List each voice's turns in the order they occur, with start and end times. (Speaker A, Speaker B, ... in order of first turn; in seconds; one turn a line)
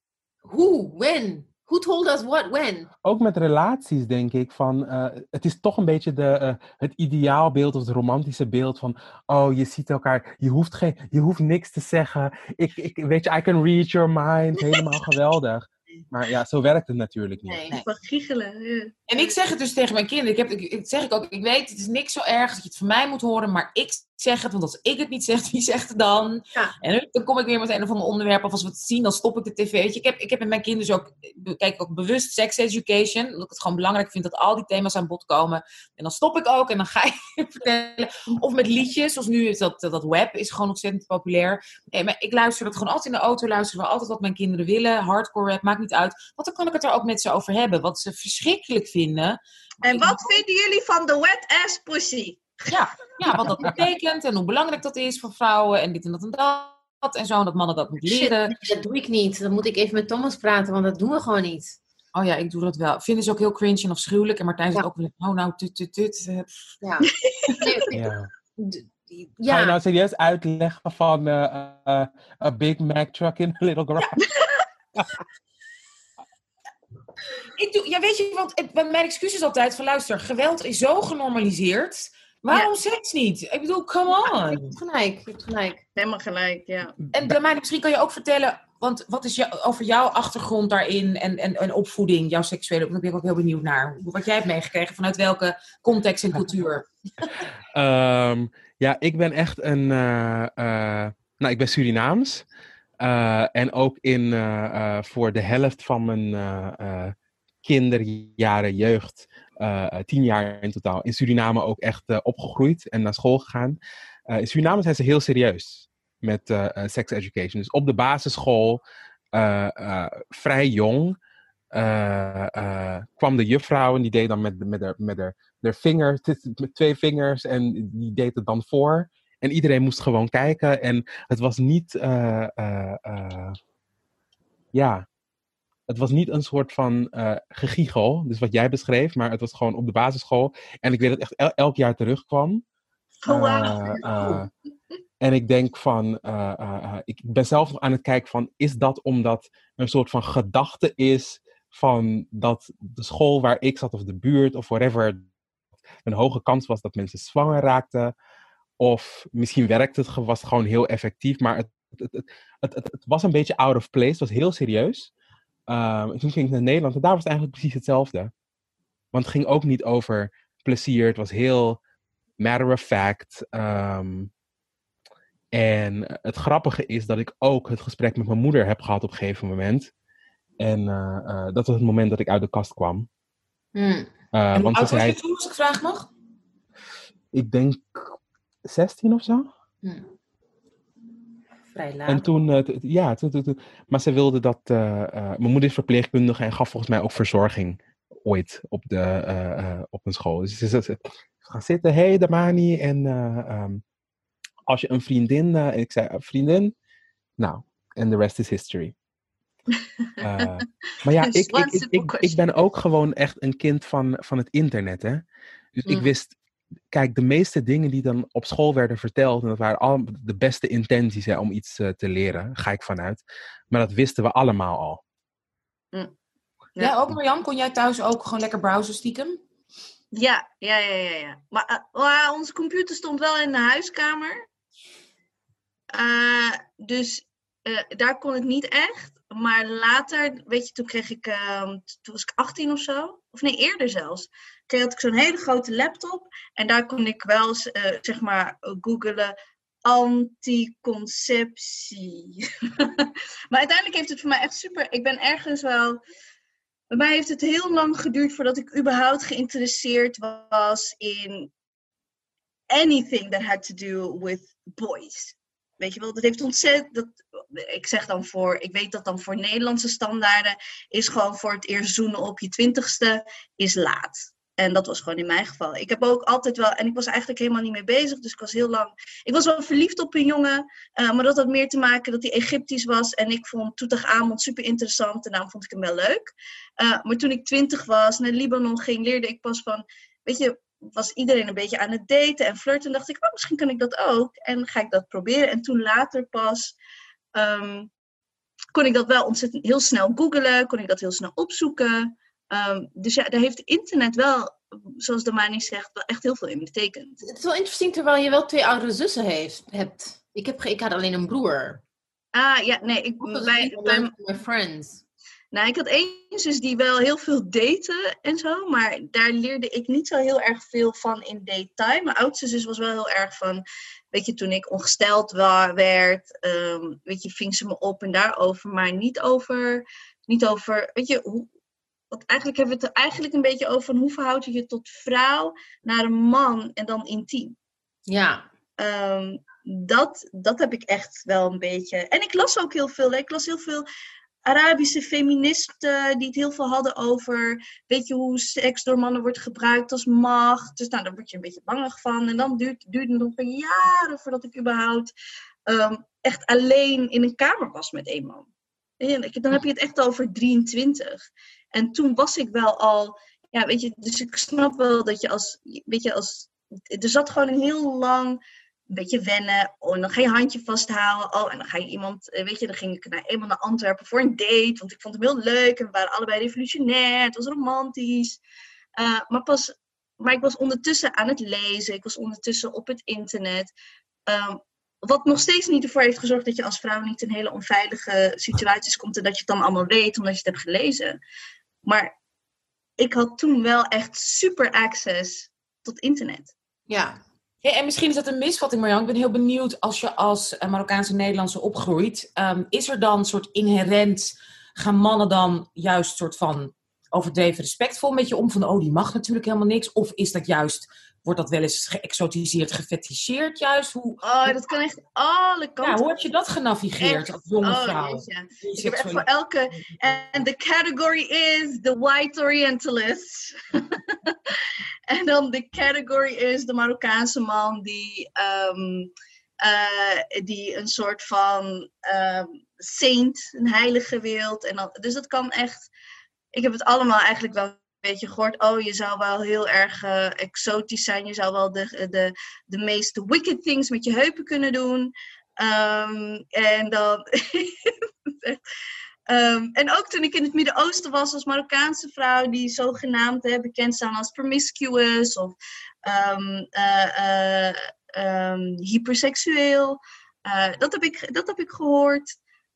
Speaker A: 0.4-2.9
Speaker B: 3.0-17.6
Speaker A: 17.4-17.8
Speaker C: 17.7-18.9
Speaker D: 19.1-50.4
Speaker C: 49.8-52.6
Speaker D: 52.7-58.5
Speaker A: 58.0-61.8
Speaker D: 62.1-66.5
Speaker A: 66.8-69.8
Speaker C: 67.1-67.7
Speaker B: 67.9-68.3
Speaker B: 69.5-74.2
Speaker C: 74.2-74.6
Speaker D: 77.5-84.8
Speaker A: 84.2-85.8
Speaker C: 86.0-87.0
Speaker D: 87.1-97.3
Speaker B: 97.7-102.4
Speaker B: 103.0-113.8
Speaker B: 114.3-118.8
Speaker B: 119.3-121.2
Speaker B: 121.7-133.6
Speaker B: 134.7-135.1
Speaker B: 135.9-142.6
Speaker C: 143.2-144.4
Speaker B: 143.3-144.5
Speaker B: 145.2-155.2
Speaker B: 156.0-158.1
Speaker B: 158.8-165.1
Speaker B: 165.7-168.3
Speaker B: 169.1-171.8
Speaker B: 172.4-174.3
Speaker B: 175.5-179.9
Speaker B: 180.6-183.1
Speaker A: 183.7-184.1
Speaker B: 184.3-185.2
Speaker D: 184.5-186.1
Speaker B: 187.3-188.1
Speaker B: 188.7-189.5
Speaker A: 191.7-192.3
Speaker B: 192.1-203.8
Speaker B: 204.7-206.7
Speaker B: 207.4-208.9
Speaker C: 209.7-210.6
Speaker B: 210.2-215.2
Speaker C: 211.2-212.4
Speaker B: 215.7-216.3
Speaker B: 216.9-225.0
Speaker D: 226.8-229.4
Speaker C: 230.1-234.4
Speaker C: 235.9-249.3
Speaker C: 249.8-256.0
Speaker C: 256.9-261.5
Speaker C: 262.7-296.7
Speaker C: 297.3-297.9
Speaker C: 298.7-307.2
Speaker A: 307.2-311.8
Speaker C: 312.3-314.1
Speaker A: 313.2-315.0
Speaker C: 315.5-331.5
Speaker C: 332.1-337.6
Speaker A: 338.1-338.4
Speaker C: 338.8-343.9
Speaker C: 344.4-355.1
Speaker C: 355.7-358.5
Speaker C: 359.0-368.4
Speaker C: 368.9-378.4
Speaker C: 379.0-383.7
Speaker C: 384.3-391.2
Speaker C: 391.9-392.1
Speaker C: 393.0-396.5
Speaker A: 396.9-397.2
Speaker D: 397.6-414.6
Speaker C: 414.2-416.1
Speaker D: 415.8-419.2
Speaker C: 417.0-429.1
Speaker C: 429.6-435.9
Speaker C: 436.5-448.6
Speaker C: 449.3-462.4